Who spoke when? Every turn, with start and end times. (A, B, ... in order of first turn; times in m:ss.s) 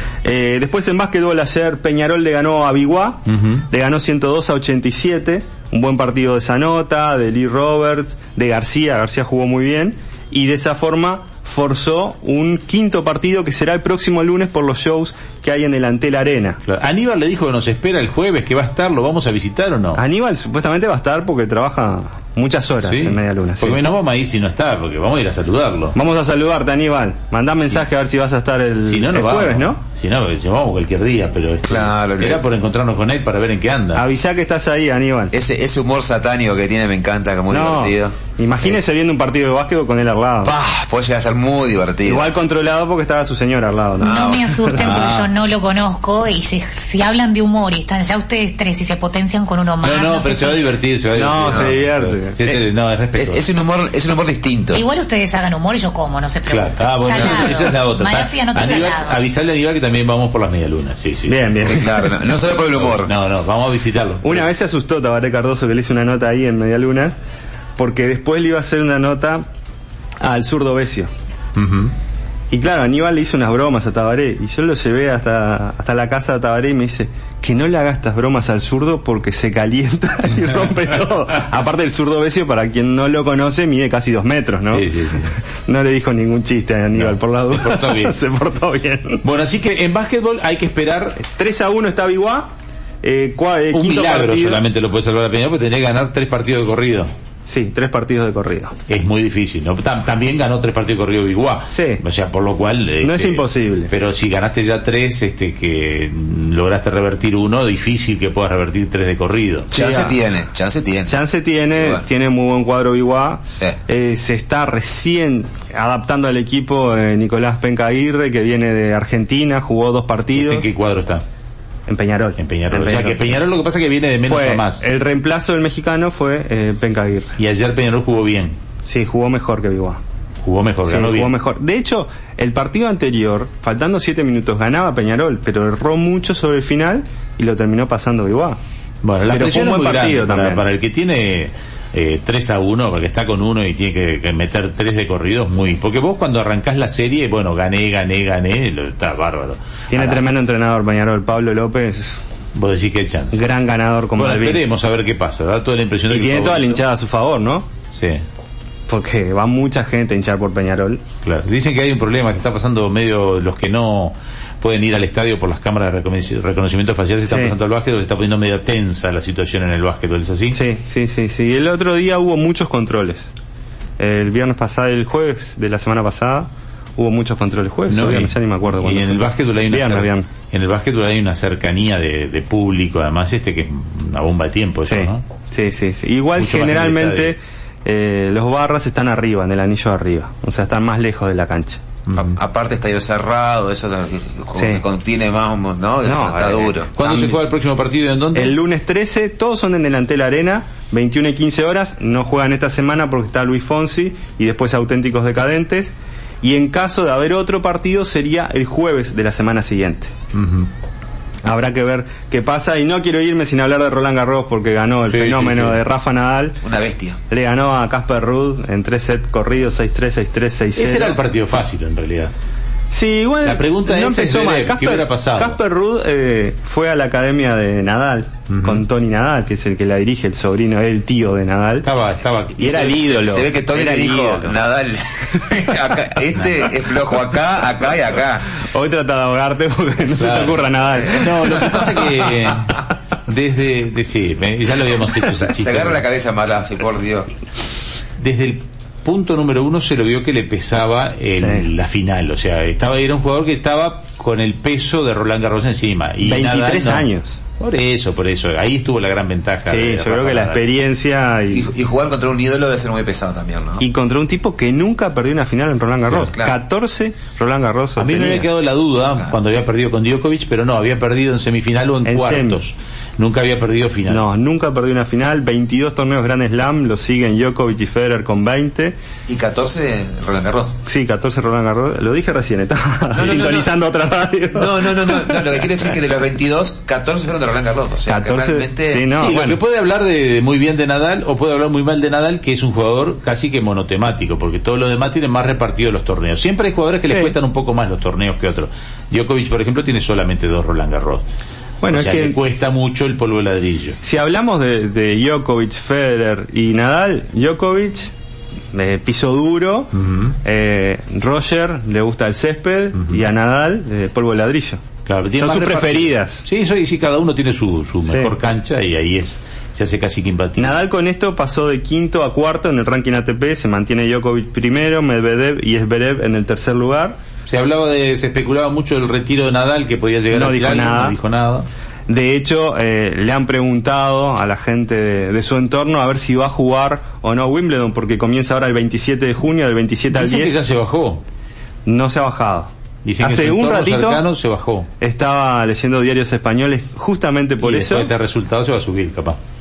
0:00.2-0:16.6 A
0:03.3-0:03.6 B
0:16.6-0:20.0 B
0:20.0-0:23.8 A
0:22.8-0:26.0 B
0:25.9-0:29.8 A
0:28.8-0:34.0 B
0:31.6-0:32.4 C
0:34.0-0:35.3 A
0:35.3-0:38.2 C
0:37.5-0:40.6 A
0:40.4-0:42.3 C
0:42.0-0:44.1 A
0:44.0-0:44.8 C
0:44.0-0:50.7 D
0:44.8-0:45.3 B
0:49.8-0:53.5 B
0:51.1-0:52.4 A
0:51.4-0:51.7 C
0:53.1-0:54.8 C
0:54.7-0:59.2 D
0:56.5-1:01.7 B
1:01.3-1:02.1 A
1:01.7-1:03.1 C
1:02.8-1:04.5 B
1:04.2-1:07.2 A
1:07.8-1:09.4 A
1:10.2-1:11.1 A
1:11.6-1:11.9 B
1:12.5-1:29.2 A
1:24.7-1:25.4 B
1:27.0-1:28.2 B
1:29.2-1:31.2 B
1:31.2-1:32.5 A
1:33.0-1:34.6 A
1:33.7-1:37.1 B
1:37.5-1:38.7 A
1:38.9-1:49.7 B
1:41.7-1:42.0 A
1:43.0-1:43.9 A
1:49.7-1:50.2 A
1:49.7-1:51.2 C
1:51.1-2:00.7 A
1:51.8-1:52.0 C
1:53.5-1:53.8 C
2:00.3-2:01.2 B
2:01.9-2:03.4 A
2:02.4-2:04.8 B
2:04.2-2:07.4 A
2:07.4-2:08.6 B
2:08.9-2:10.0 A
2:10.4-2:11.3 B
2:10.9-2:18.6 A
2:19.0-2:30.2 B
2:19.3-2:20.7 A
2:29.9-2:32.2 A
2:32.6-2:33.5 B
2:33.3-2:34.6 A
2:34.2-2:36.8 B
2:36.1-2:37.7 A
2:38.0-2:38.2 B
2:38.9-2:41.0 A
2:41.2-2:50.6 B
2:47.3-2:47.6 A
2:50.5-2:53.3 A
2:54.0-3:00.3 A
2:57.9-3:05.2 B
3:04.8-3:11.8 A
3:06.4-3:07.4 B
3:12.1-3:12.4 B
3:12.1-3:16.9 C
3:14.6-3:14.8 A
3:16.0-3:17.4 A
3:17.0-3:18.6 B
3:18.3-3:30.1 A
3:30.3-3:30.7 B
3:31.4-3:36.6 A
3:35.1-3:35.8 B
3:36.6-3:37.2 C
3:37.3-3:41.2 A
3:40.8-3:42.3 B
3:42.9-3:51.9 A
3:43.4-3:45.6 B
3:48.5-3:48.8 B
3:51.8-3:52.7 B
3:52.6-3:58.6 C
3:52.6-3:54.6 A
3:58.6-4:02.1 A
4:00.1-4:06.0 B
4:05.3-4:07.3 C
4:08.2-4:17.1 B
4:11.4-4:11.7 A
4:16.2-4:17.4 A
4:17.6-4:20.6 B
4:19.7-4:21.7 A
4:21.5-4:23.8 C
4:23.8-4:28.5 A
4:26.3-4:26.6 C
4:28.0-4:34.3 B
4:32.0-4:32.6 A
4:34.1-4:39.0 A
4:39.3-4:40.8 C
4:40.9-4:45.9 A
4:43.2-4:43.7 C
4:44.5-4:49.0 C
4:48.1-4:49.6 A
4:49.1-5:01.2 B
4:57.1-4:57.3 A
5:01.8-5:02.4 A
5:01.9-5:04.0 B
5:04.0-5:08.1 A
5:08.7-5:14.8 A
5:10.0-5:10.3 B
5:15.1-5:20.8 B
5:15.4-5:16.5 A
5:18.1-5:18.4 A
5:20.6-5:27.2 A
5:27.5-5:31.7 B
5:30.3-5:31.2 A
5:32.1-5:40.6 A
5:40.1-5:41.2 B
5:41.9-5:44.2 A
5:43.0-5:44.9 B
5:45.0-5:48.1 A
5:47.6-5:49.4 B